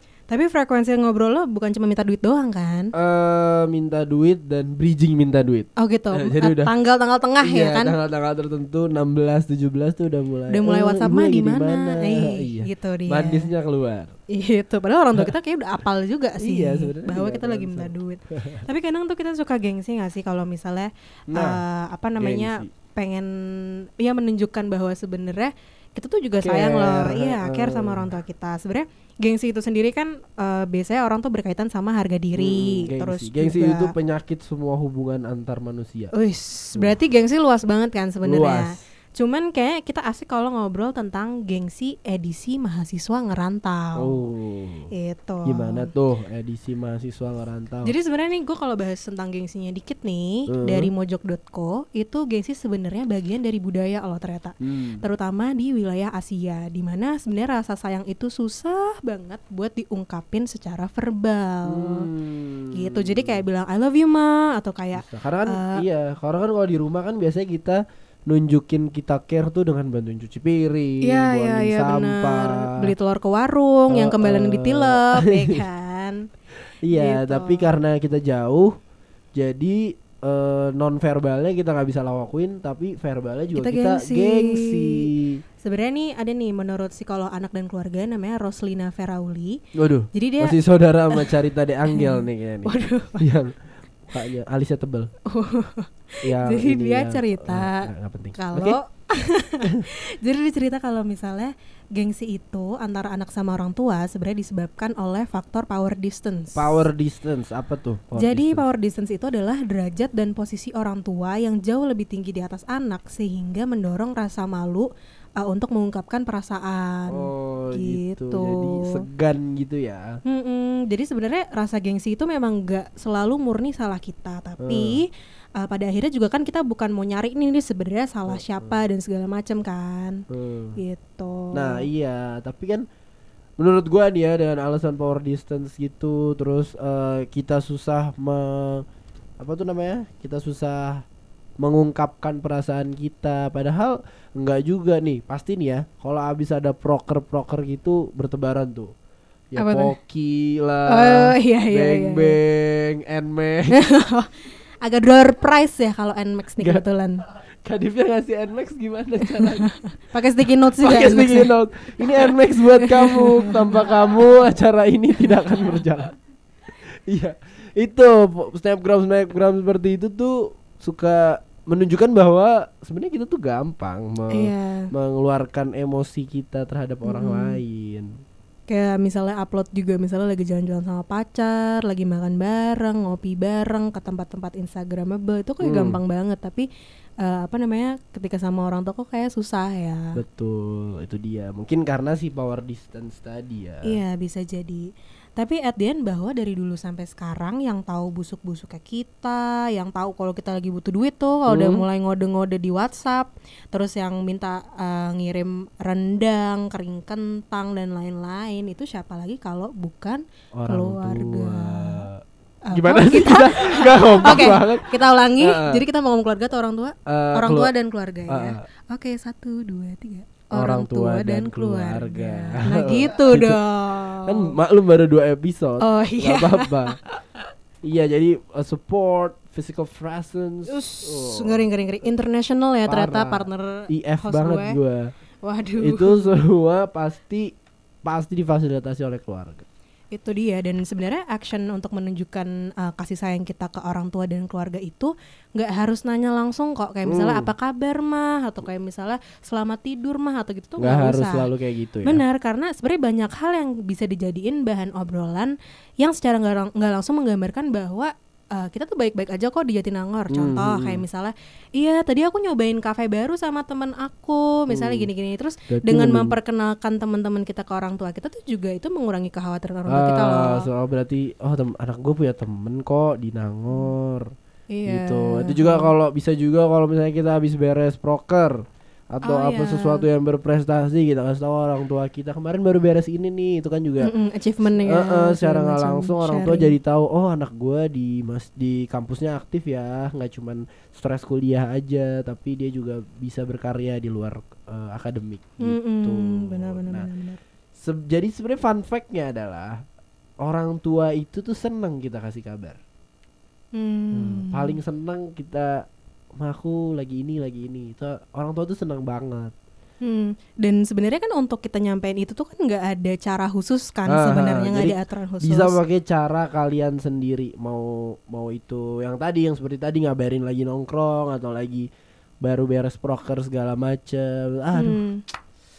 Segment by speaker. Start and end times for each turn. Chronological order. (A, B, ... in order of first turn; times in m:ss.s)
0:00.3-0:02.9 A
0:02.9-0:06.7 B
0:05.8-0:08.0 A
0:07.4-0:14.1 B
0:10.5-0:13.5 A
0:14.3-0:33.9 A
0:16.4-0:18.6 B
0:21.3-0:21.6 B
0:22.2-0:22.7 B
0:26.4-0:28.1 B
0:32.3-0:36.1 B
0:36.1-0:44.2 A
0:38.2-0:38.8 B
0:44.0-0:44.9 B
0:44.9-0:45.9 A
0:45.4-0:47.9 B
0:47.8-1:02.1 A
0:50.5-0:50.9 B
0:54.6-0:55.0 B
1:01.6-1:03.4 B
1:02.7-1:05.8 A
1:04.9-1:12.9 B
1:11.0-1:16.2 A
1:13.9-1:15.6 B
1:16.8-1:18.7 B
1:16.9-1:17.7 A
1:19.4-1:25.4 B
1:23.5-1:25.0 A
1:25.6-1:29.6 A
1:29.7-1:33.5 B
1:30.1-1:30.6 A
1:31.1-1:31.4 A
1:31.9-1:33.3 A
1:34.1-1:35.1 B
1:35.3-1:46.9 A
1:36.2-1:38.8 B
1:46.5-1:48.6 B
1:48.1-1:54.9 A
1:55.4-1:59.0 A
1:57.1-2:00.2 B
2:00.2-2:10.2 A
2:04.6-2:05.0 B
2:08.3-2:08.8 B
2:10.3-2:10.8 B
2:10.8-2:11.8 A
2:11.5-2:12.8 B
2:13.6-2:18.8 B
2:19.4-2:21.0 B
2:21.6-2:28.9 B
2:29.5-2:33.8 B
2:29.6-2:29.9 A
2:30.9-2:32.4 A
2:33.7-2:34.3 A
2:34.8-2:37.2 A
2:36.6-2:36.8 B
2:37.6-2:39.7 B
2:40.1-2:41.5 A
2:40.8-2:46.1 B
2:42.1-2:43.8 A
2:47.1-2:58.1 B
2:54.3-2:54.9 A
2:57.0-2:57.6 A
2:58.7-3:06.7 A
3:05.6-3:06.0 B
3:07.2-3:10.2 A
3:10.1-3:14.0 B
3:13.8-3:32.1 A
3:21.5-3:21.8 B
3:30.6-3:35.8 B
3:32.6-3:44.5 A
3:37.1-3:37.7 B
3:38.3-3:38.6 B
3:40.5-3:47.0 B
3:45.8-3:46.9 A
3:47.8-3:51.6 B
3:50.7-3:54.8 A
3:52.9-3:55.1 B
3:55.4-3:56.4 A
3:55.8-3:57.5 B
3:58.0-3:59.6 B
4:00.1-4:11.5 A
4:07.0-4:07.5 B
4:10.8-4:12.2 B
4:12.0-4:30.7 A
4:20.3-4:21.0 B
4:24.7-4:25.1 B
4:25.7-4:26.4 B
4:29.9-4:34.3 B
4:34.7-4:35.9 A
4:34.8-4:44.1 B
4:39.2-4:40.1 A
4:44.0-4:46.7 A
4:44.8-4:57.1 B
4:55.6-4:57.4 A
4:57.8-4:59.8 B
5:00.4-5:02.8 B
5:03.7-5:04.8 A
5:04.1-5:05.8 B
5:06.4-5:09.5 B
5:10.0-5:15.8 A
5:14.1-5:21.9 B
5:22.4-5:25.0 B
5:24.7-5:25.2 A